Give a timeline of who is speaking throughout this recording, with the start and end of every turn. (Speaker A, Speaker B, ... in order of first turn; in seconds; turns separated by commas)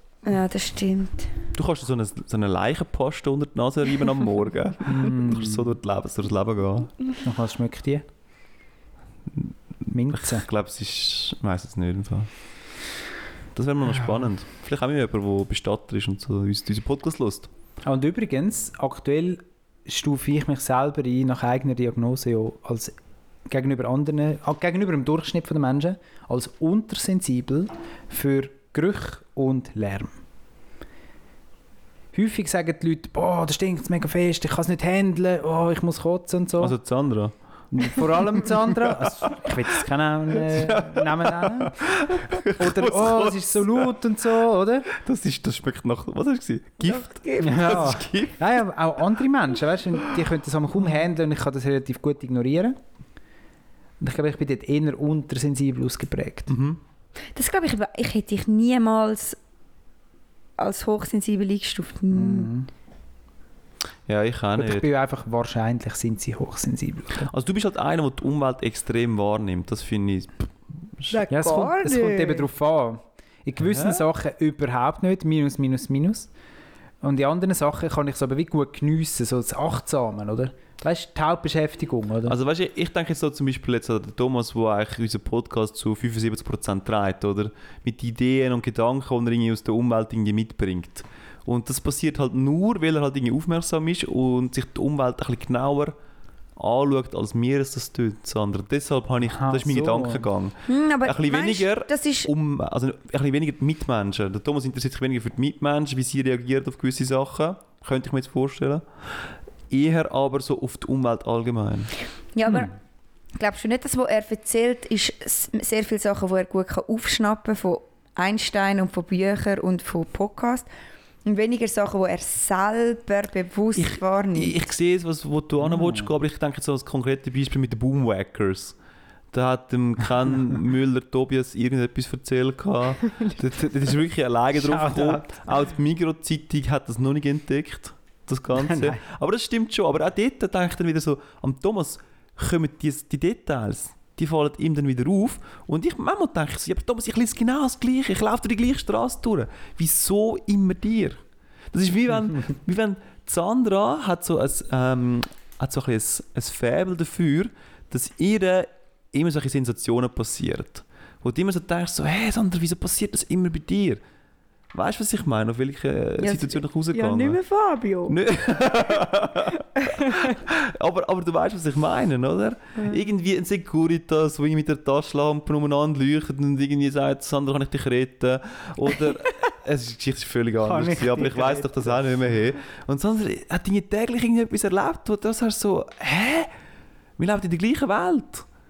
Speaker A: 0.2-1.3, Speaker B: 1.5-6.9, Speaker C: 4.8-5.7, Speaker C: 7.2-8.1, Speaker C: 9.9-10.5, Speaker B: 10.1-12.3, Speaker B: 13.5-17.5, Speaker C: 17.8-22.9, Speaker C: 23.5-30.2, Speaker C: 32.1-36.7, Speaker B: 36.6-38.1, Speaker C: 37.7-44.9, Speaker B: 38.7-39.5, Speaker B: 40.3-43.9, Speaker B: 44.9-48.4, Speaker A: 46.8-47.9, Speaker C: 47.4-52.8, Speaker C: 54.0-56.5, Speaker B: 56.5-56.8, Speaker A: 57.3-59.4, Speaker A: 60.6-62.5, Speaker C: 62.1-62.7, Speaker B: 64.1-64.9, Speaker C: 64.5-67.3, Speaker B: 67.3-71.1, Speaker A: 71.1-72.5, Speaker C: 71.3-76.3, Speaker B: 73.6-74.0, Speaker C: 77.0-82.4, Speaker B: 82.3-95.9, Speaker B: 96.6-108.8, Speaker C: 99.3-100.2, Speaker A: 100.7-102.3, Speaker B: 109.7-111.9, Speaker A: 112.3-112.7, Speaker A: 113.3-120.7, Speaker A: 121.2-124.6, Speaker B: 123.8-128.8, Speaker C: 125.6-126.1, Speaker B: 129.3-151.2, Speaker C: 134.6-135.4, Speaker C: 138.6-139.0, Speaker B: 151.7-164.0, Speaker B: 164.7-167.4, Speaker A: 166.2-168.2, Speaker B: 168.1-186.5, Speaker A: 169.8-170.2, Speaker C: 180.6-182.1, Speaker B: 187.2-188.4